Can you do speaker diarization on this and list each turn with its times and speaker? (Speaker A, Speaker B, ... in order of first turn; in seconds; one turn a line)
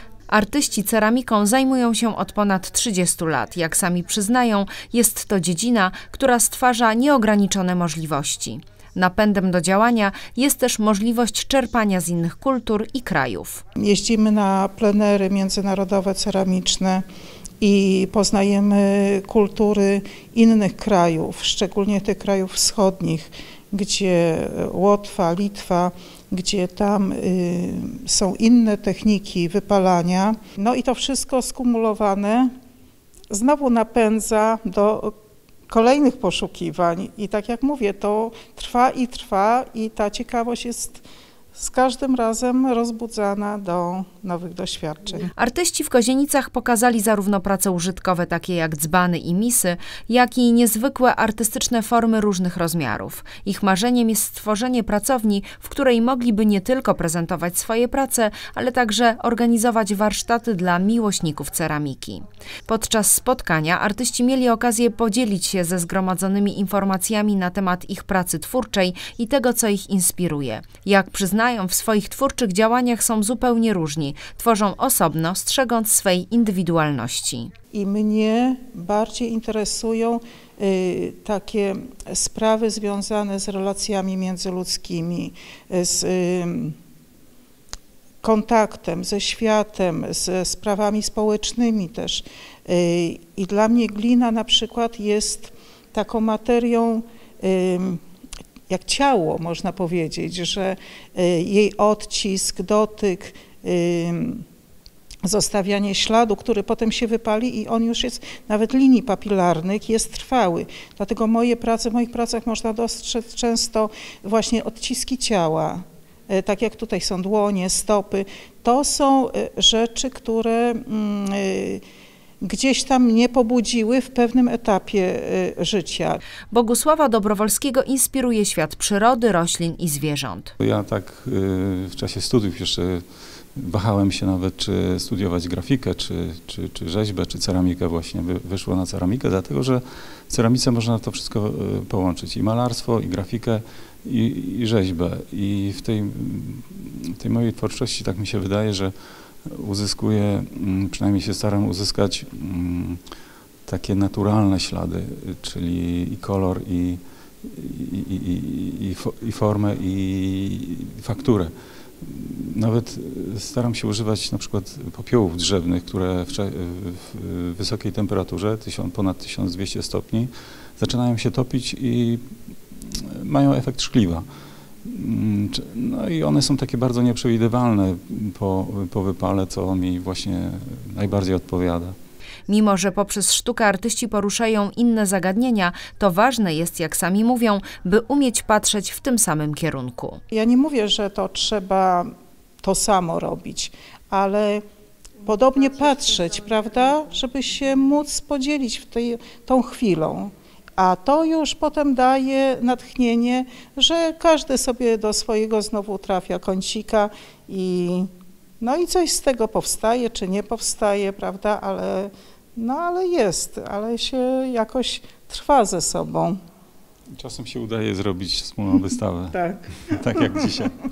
Speaker A: 0.3-13.6
Speaker B: 13.8-17.0
Speaker B: 17.6-32.5
Speaker B: 33.3-35.1
Speaker B: 35.7-41.0
Speaker B: 41.5-45.3
Speaker A: 45.3-77.5
Speaker B: 77.7-86.8
Speaker B: 88.2-98.0
Speaker B: 98.7-104.4
Speaker B: 105.2-121.8
Speaker B: 122.4-126.2
Speaker A: 126.5-130.5
Speaker C: 130.6-133.0
Speaker C: 133.6-148.9
Speaker C: 149.4-153.0
Speaker C: 153.7-172.2
Speaker C: 172.8-174.2
Speaker C: 174.8-181.9
Speaker A: 182.5-190.2
Speaker B: 190.3-192.1
Speaker B: 192.6-194.6
Speaker B: 195.2-208.1
Speaker B: 208.6-216.4
Speaker C: 217.2-220.8
Speaker B: 219.3-219.8